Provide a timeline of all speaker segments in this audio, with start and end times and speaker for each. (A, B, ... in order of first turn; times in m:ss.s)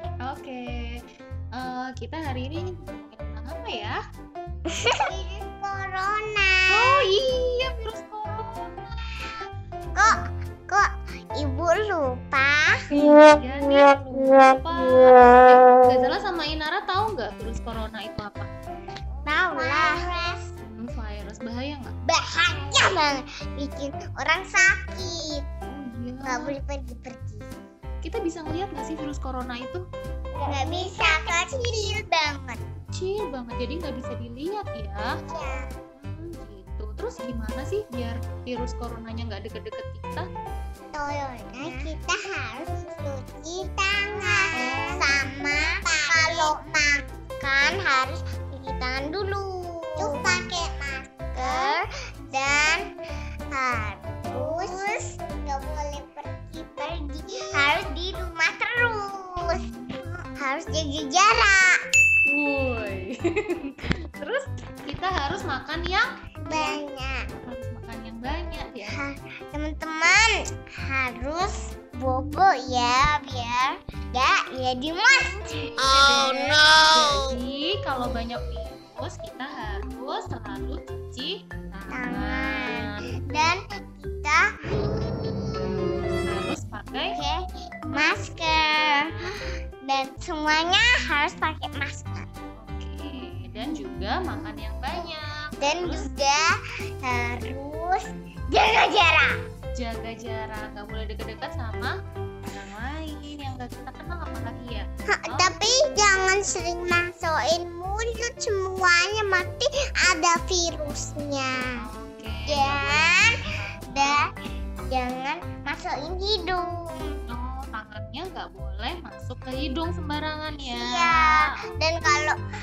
0:00.2-0:01.0 A
0:01.5-0:04.0 A
0:04.7-0:07.0 B
0:06.7-0:09.4 A
0:09.9-0:12.8 B
0:12.9-0:18.5 A
0:19.2-0:20.4 B
0:19.5-0:20.0 A
0:20.6-0:21.9 A
0:22.0-0:25.4 B
0:25.7-0:26.5 A
0:26.2-0:27.5 B
0:28.0-0:29.8 A
0:30.4-0:32.6 B
0:32.9-0:35.0 A
0:35.3-0:35.7 B
0:36.0-0:40.3 A
0:40.9-0:52.9 B
0:44.5-0:45.0 A
0:50.0-0:50.4 A
0:51.3-0:51.8 A
0:53.5-1:01.8 B
0:54.3-0:54.7 A
0:59.5-1:00.0 A
1:02.2-1:06.8 A
1:06.4-1:07.3 B
1:07.4-1:09.0 A
1:08.9-1:15.4 B
1:15.2-1:23.5 A
1:21.9-1:24.5 B
1:25.6-1:27.2 A
1:27.1-1:29.1 B
1:27.9-1:28.2 A
1:28.9-1:29.3 A
1:29.8-1:32.3 B
1:32.6-1:36.1 A
1:35.6-1:36.5 B
1:37.0-1:39.3 B
1:39.8-1:41.9 A
1:42.5-1:45.6 A
1:45.1-1:51.7 B
1:51.8-1:54.2 A
1:52.5-1:53.4 B
1:53.9-1:54.2 B
1:54.9-1:57.1 B
1:57.3-2:01.6 A
2:00.7-2:02.4 B